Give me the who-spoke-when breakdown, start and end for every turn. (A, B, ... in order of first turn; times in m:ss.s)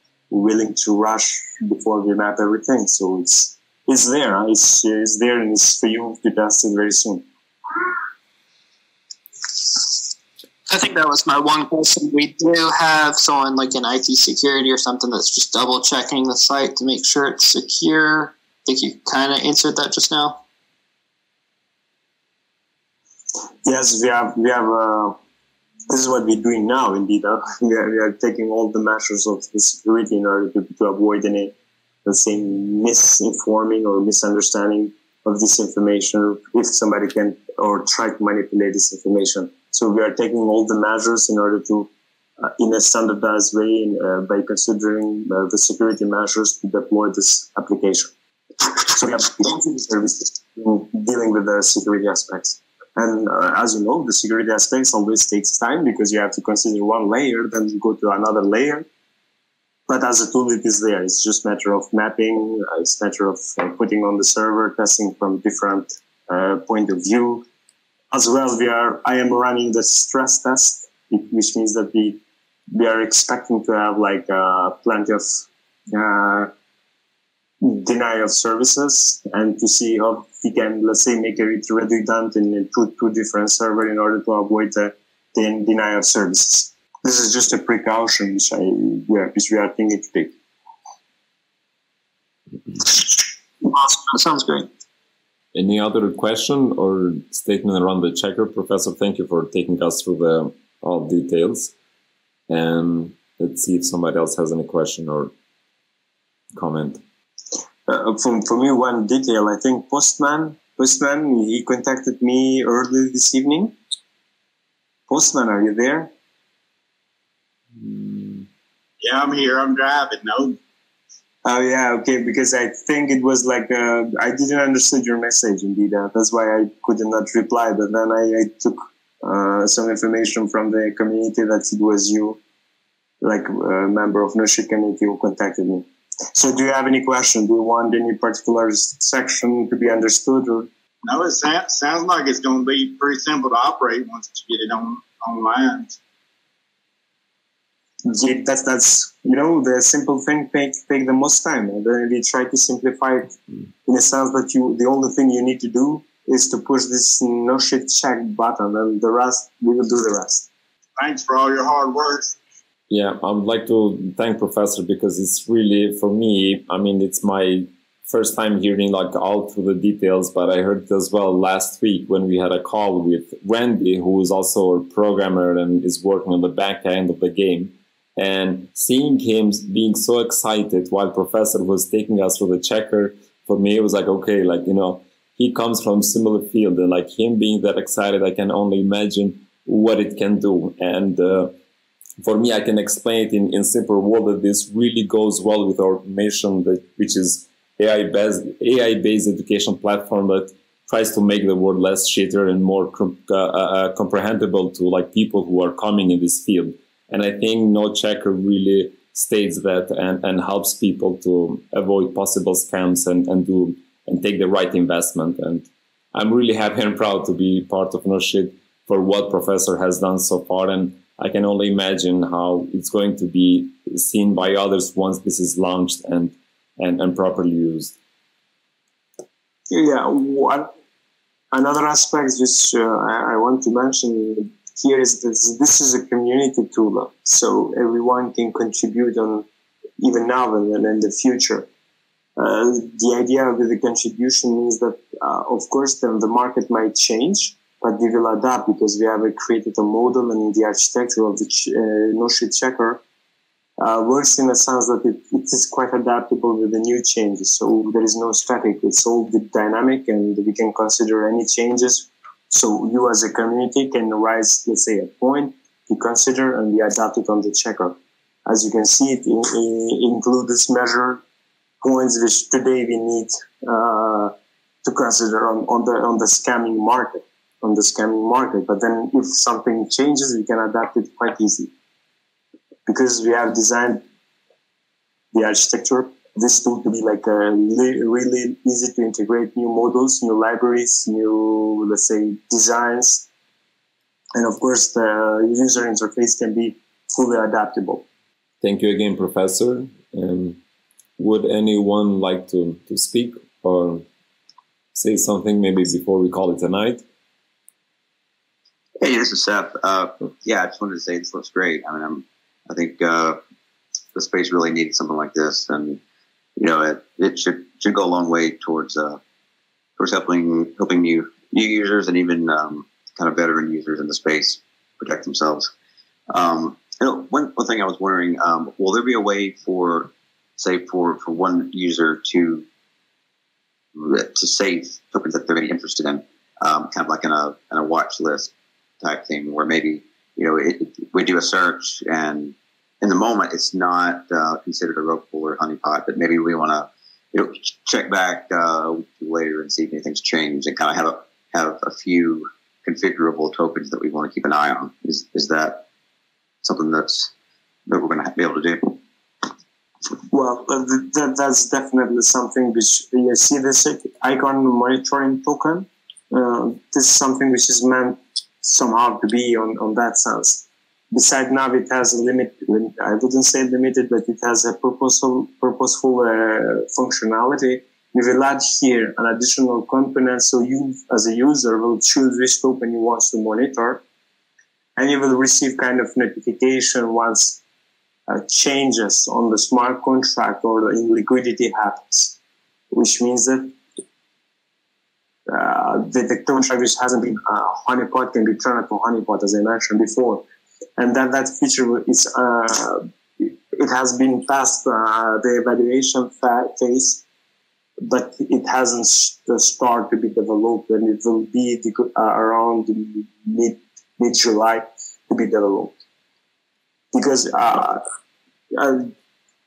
0:00.3-0:07.2 A
0:10.7-0:20.4 B
0:23.6-0:25.2 A
0:25.9-0:31.5 A
0:32.0-0:41.9 A
0:42.4-0:58.9 A
0:59.9-1:07.4 A
1:08.1-1:12.2 A
1:12.7-1:16.5 A
1:17.6-1:30.3 A
1:33.6-1:34.7 B
1:35.5-1:41.7 C
1:42.5-1:45.3 C
1:46.5-1:47.0 C
1:47.9-1:53.8 A
1:55.1-1:56.1 A
1:59.0-2:00.6 D
2:01.4-2:12.4 A
2:13.2-2:20.7 A
2:21.0-2:26.0 D
2:28.0-2:33.3 A
2:33.8-2:40.5 A
2:41.0-2:42.4 D
2:42.9-3:11.6 C
3:12.2-3:47.9 C
3:49.7-3:50.7 A
3:51.5-3:59.4 A
4:00.0-4:01.7 A
4:02.4-4:13.0 A
4:13.8-4:31.2 A
4:31.8-4:41.7 A
4:42.8-4:44.0 A
4:45.3-4:53.3 A
4:54.3-4:58.0 A
4:58.6-5:00.6 C
5:01.2-5:04.0 C
5:04.9-5:07.0 C
5:09.0-5:13.4 E
5:14.1-5:16.0 E
5:16.6-5:19.2 E
5:20.0-5:25.7 E
5:26.3-5:32.6 E
5:34.0-5:55.8 E
5:56.6-5:57.3 E
5:57.9-5:59.0 E
6:00.3-6:24.0 A
6:25.0-6:27.6 A
6:28.3-6:32.4 A
6:32.9-6:33.7 A
6:35.5-6:40.4 A
6:41.0-6:47.2 A
6:48.0-6:56.0 A
6:57.1-6:58.0 A
6:58.7-6:59.1 A